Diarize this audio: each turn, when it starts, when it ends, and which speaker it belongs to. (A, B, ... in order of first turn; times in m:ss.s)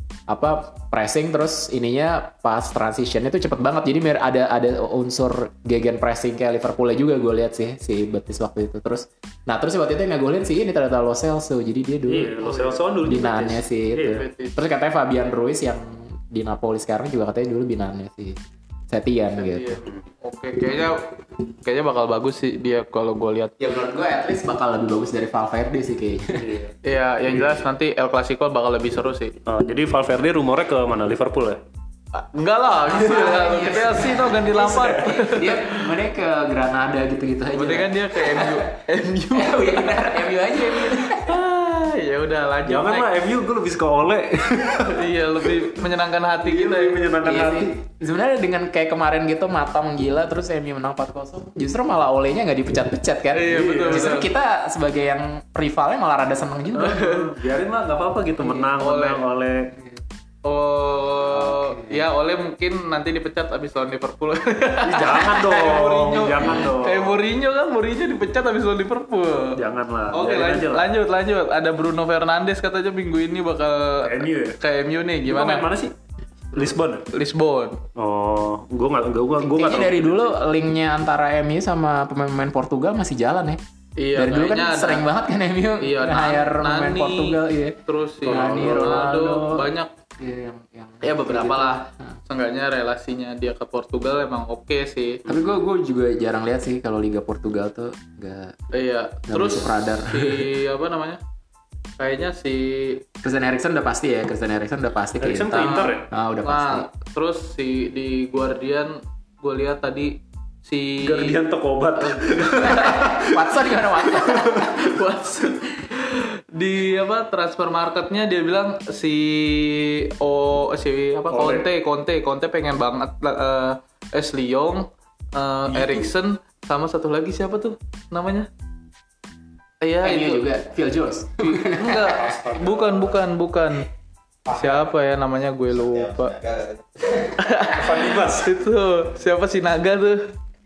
0:00.3-0:12.4 A
0:12.1-0:14.2 B
0:12.4-0:12.8 C
0:13.0-0:19.8 A
0:14.0-0:14.6 C
0:19.4-0:23.6 C
0:23.6-0:26.6 A
0:26.4-0:26.7 B
0:26.8-0:29.3 C
0:27.3-0:27.6 B
0:29.4-0:31.6 B
0:32.1-0:35.8 C
0:32.8-0:38.8 A
0:37.5-0:40.2 C
0:39.3-0:41.3 A
0:41.1-0:43.1 C
0:42.7-0:45.9 B
0:44.8-0:47.0 C
0:46.4-0:47.8 B
0:47.2-0:57.1 A
0:53.3-0:54.3 C
0:53.6-0:54.1 B
0:56.7-0:57.3 C
0:56.7-0:59.7 B
0:58.4-0:59.2 C
1:00.4-1:09.6 C
1:01.3-1:02.0 A
1:04.8-1:07.2 B
1:09.5-1:10.9 B
1:10.1-1:15.6 C
1:14.0-1:14.6 B
1:15.2-1:15.9 B
1:16.5-1:17.8 C
1:16.5-1:17.1 B
1:18.0-1:20.4 B
1:19.4-1:23.6 A
1:24.0-1:25.0 C
1:24.1-1:32.1 A
1:25.8-1:29.9 C
1:28.2-1:29.1 B
1:31.0-1:35.2 C
1:35.3-1:38.6 A
1:38.7-1:41.2 C
1:39.3-1:40.5 A
1:42.0-1:43.0 C
1:43.2-1:46.9 A
1:45.2-1:46.1 B
1:45.6-1:51.4 C
1:51.0-1:53.6 B
1:52.0-1:53.0 C
1:52.7-1:54.9 A
1:54.3-1:54.6 B
1:54.4-2:08.5 C
2:01.3-2:01.7 B
2:05.7-2:06.1 B
2:09.8-2:10.5 C
2:10.0-2:12.2 A
2:11.4-2:13.9 C
2:12.1-2:13.2 B
2:14.5-2:14.8 B
2:14.5-2:16.5 C
2:16.9-2:17.4 A
2:17.3-2:20.3 C
2:17.6-2:18.5 B